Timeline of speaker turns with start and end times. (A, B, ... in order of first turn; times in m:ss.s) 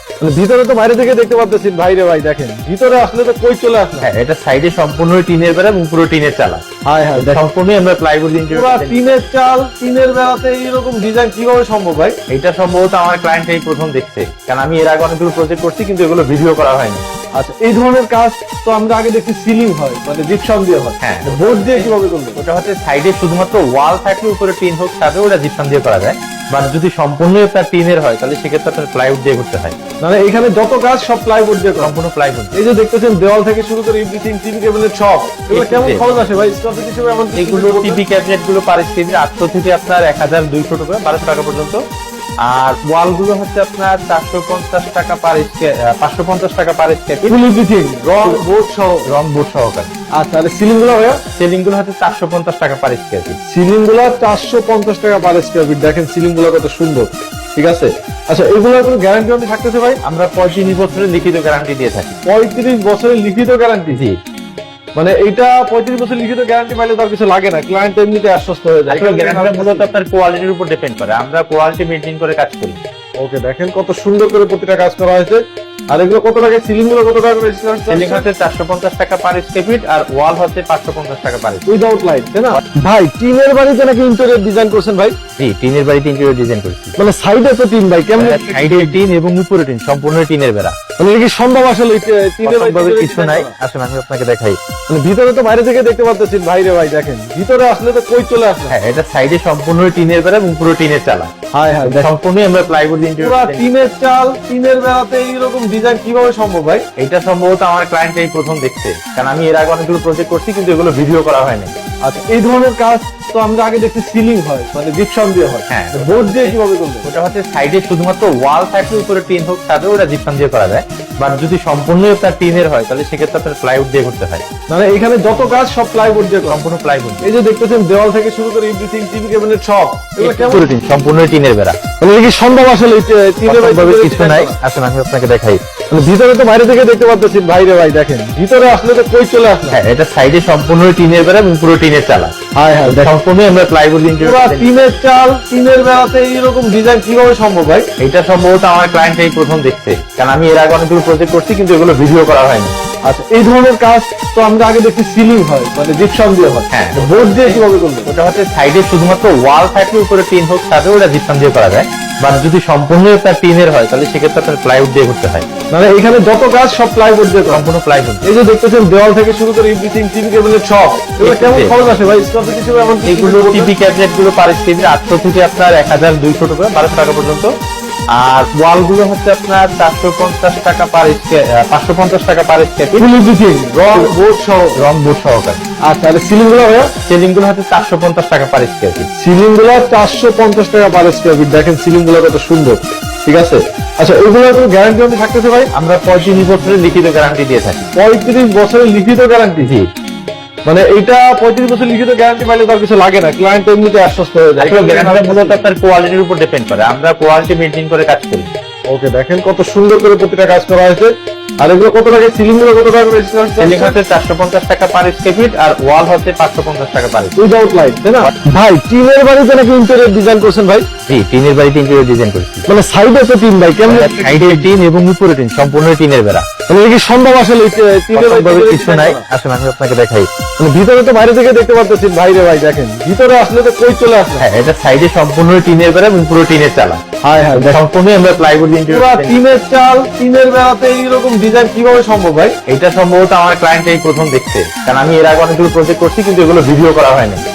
0:00.2-0:04.1 A
0:04.0-0:06.6 B
0:06.8-0:07.4 A
0:07.1-0:09.2 B
0:08.5-0:12.2 A
0:12.3-0:17.0 B
0:17.4-0:22.4 A
0:21.0-0:29.8 B
0:30.0-0:31.9 A
0:31.8-0:32.6 B
0:32.5-0:38.0 A
0:35.5-0:36.1 B
0:37.3-0:41.8 B
0:42.4-0:47.4 B
0:47.2-0:49.1 A
0:48.0-0:49.9 B
0:50.2-0:51.2 A
0:51.4-0:53.4 B
0:53.5-1:00.0 A
1:00.0-1:02.1 B
1:02.2-1:04.0 A
1:03.9-1:04.2 B
1:05.0-1:09.9 A
1:08.9-1:12.8 B
1:13.2-1:18.3 A
1:17.9-1:21.7 B
1:21.7-1:25.2 A
1:25.4-1:27.0 B
1:27.0-1:29.0 A
1:28.2-1:30.8 B
1:31.0-1:33.5 A
1:32.4-1:34.6 B
1:34.9-1:38.8 A
1:38.7-1:41.3 B
1:41.5-1:42.1 A
1:41.8-1:43.7 B
1:43.2-1:46.8 A
1:47.0-1:51.7 B
1:52.0-1:57.1 A
1:55.7-2:04.4 B
2:04.7-2:06.6 A
2:06.4-2:07.3 B
2:07.2-2:10.6 A
2:10.2-2:11.8 B
2:12.0-2:14.6 A
2:13.4-2:15.6 B
2:15.9-2:19.8 A
2:19.7-2:22.3 B
2:22.5-2:23.1 A
2:22.8-2:24.9 B
2:24.2-2:27.9 A
2:28.0-2:32.7 B
2:33.1-2:38.1 A
2:36.7-2:45.4 B
2:45.7-2:47.6 A
2:47.5-2:48.3 B
2:48.2-2:53.7 A
2:51.2-2:51.8 B
2:53.0-2:57.5 B
2:58.1-3:03.1 B
3:03.0-3:04.8 A
3:03.7-3:05.6 B
3:05.8-3:06.9 A
3:07.1-3:09.1 B
3:09.2-3:15.7 A
3:15.7-3:17.8 B
3:17.9-3:19.7 A
3:19.6-3:19.9 B
3:20.6-3:25.6 A
3:24.6-3:28.5 B
3:28.9-3:34.0 A
3:33.6-3:37.4 B
3:37.4-3:40.9 A
3:41.1-3:42.6 B
3:42.7-3:44.7 A
3:43.8-3:46.5 B
3:46.7-3:49.2 A
3:48.1-3:50.3 B
3:50.6-3:54.4 A
3:54.4-3:57.0 B
3:57.2-3:57.8 A
3:57.5-3:59.4 B
3:58.9-4:02.5 A
4:02.7-4:07.4 B